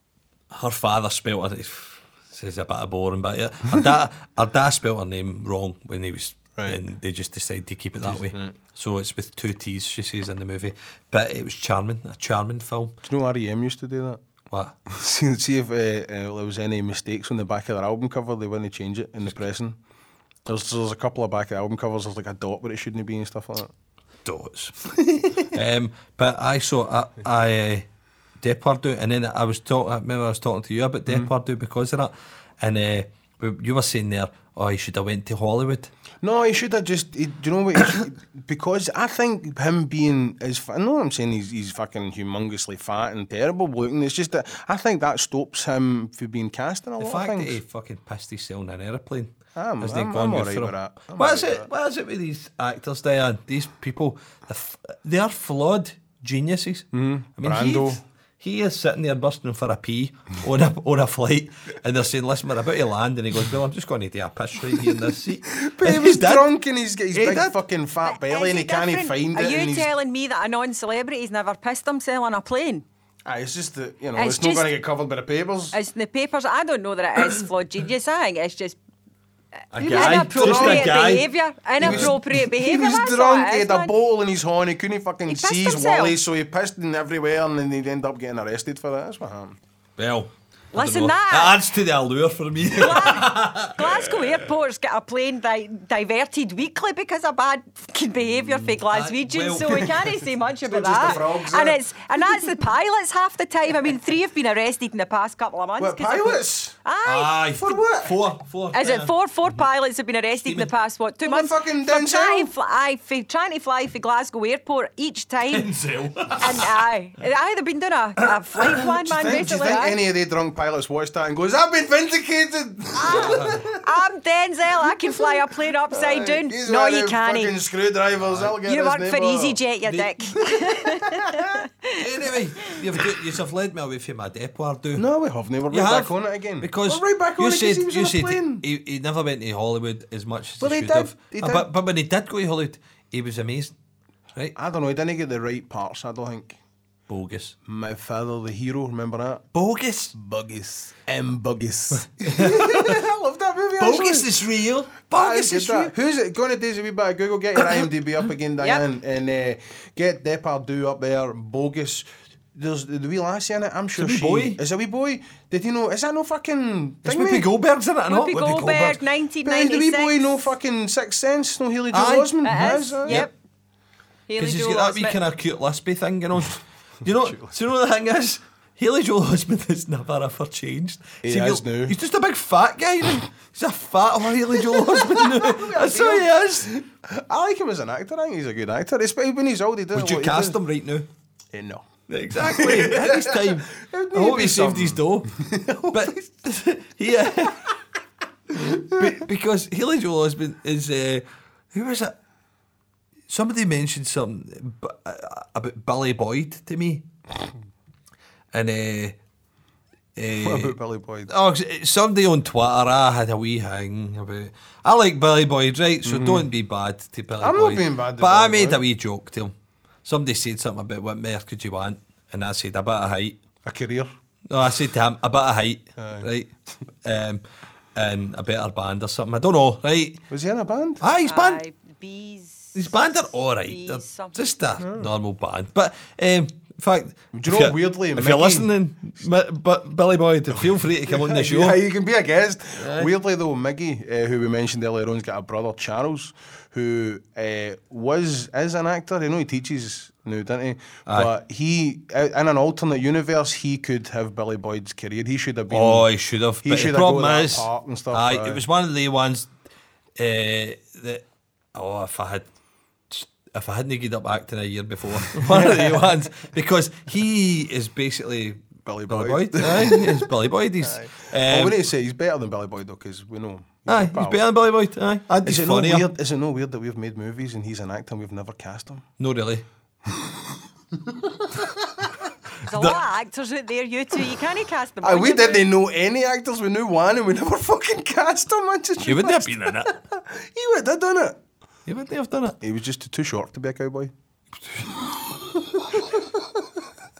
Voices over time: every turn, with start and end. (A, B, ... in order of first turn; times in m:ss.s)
0:00.5-0:13.0 A
0:06.6-0:06.8 B
0:08.0-0:08.6 B
0:13.0-0:14.2 B
0:14.5-0:14.8 A
0:14.9-0:19.8 B
0:20.4-0:23.7 B
0:24.2-0:24.8 A
0:25.0-0:25.5 B
0:25.3-0:27.9 A
0:28.4-0:35.9 A
0:36.2-0:47.6 B
0:47.0-1:06.5 A
0:49.6-0:51.7 B
0:56.9-0:58.0 B
1:05.4-1:09.9 B
1:07.1-1:07.6 A
1:08.0-1:12.8 C
1:13.2-1:15.8 B
1:14.2-1:14.7 C
1:15.7-1:18.8 C
1:19.6-1:23.9 C
1:19.7-1:21.3 A
1:19.9-1:21.1 B
1:21.8-1:29.6 B
1:21.8-1:22.1 A
1:25.3-1:26.2 C
1:30.0-1:34.5 A
1:30.7-1:31.6 C
1:32.7-1:47.3 C
1:38.5-1:40.1 A
1:40.6-1:41.8 B
1:45.8-1:46.7 B
1:47.0-1:49.1 A
1:47.5-1:48.1 B
1:48.7-1:55.7 C
1:50.4-1:50.7 A
1:51.2-1:52.5 B
1:55.5-1:56.7 A
1:56.3-2:00.0 C
1:58.8-2:03.8 B
2:03.0-2:07.5 C
2:03.1-2:03.6 A
2:05.9-2:11.6 B
2:08.2-2:08.6 A
2:08.6-2:12.8 C
2:11.9-2:15.0 A
2:15.0-2:18.6 B
2:15.7-2:23.7 A
2:20.6-2:21.7 B
2:24.5-2:26.6 B
2:27.1-2:27.5 A
2:27.6-2:29.4 B
2:29.5-2:30.1 A
2:30.1-2:34.3 B
2:32.3-2:33.0 A
2:33.8-2:35.9 A
2:35.1-2:47.5 B
2:37.6-2:37.8 A
2:44.0-2:44.6 A
2:47.0-2:48.4 A
2:48.1-2:50.5 C
2:48.3-2:53.3 B
2:51.9-2:52.3 A
2:52.4-2:53.3 C
2:54.3-2:55.2 C
2:54.4-3:06.7 A
2:57.2-2:57.5 B
3:01.2-3:02.0 B
3:04.6-3:10.6 B
3:09.9-3:11.1 A
3:11.5-3:16.2 B
3:12.1-3:17.8 A
3:18.5-3:19.2 B
3:18.5-3:22.2 A
3:23.3-3:27.0 A
3:28.5-3:29.2 A
3:30.2-3:30.8 A
3:30.3-3:31.3 B
3:31.3-3:39.5 A
3:36.0-3:36.5 B
3:37.4-3:38.8 B
3:40.0-3:43.4 A
3:43.6-3:44.1 B
3:44.5-3:46.5 A
3:46.0-3:46.3 B
3:47.0-3:47.4 A
3:47.9-3:50.2 A
3:50.3-3:51.0 B
3:51.0-3:51.6 A
3:51.2-3:54.6 C
3:52.7-4:01.8 A
3:54.8-3:55.1 B
3:57.3-3:58.7 B
4:01.0-4:16.1 B
4:02.8-4:03.1 A
4:15.7-4:19.5 A
4:16.6-4:18.6 B
4:20.2-4:22.5 A
4:23.1-4:31.8 A
4:25.4-4:26.1 B
4:28.8-4:30.3 B
4:30.8-4:34.4 B
4:33.9-4:36.1 A
4:35.4-4:39.0 B
4:39.2-4:39.6 A
4:40.1-4:40.4 B
4:40.9-4:42.2 B
4:42.6-4:45.7 C
4:42.7-4:43.0 A
4:45.0-4:51.4 B
4:49.0-4:49.9 A
4:51.8-4:52.6 A
4:52.6-4:54.1 B
4:54.8-4:56.4 B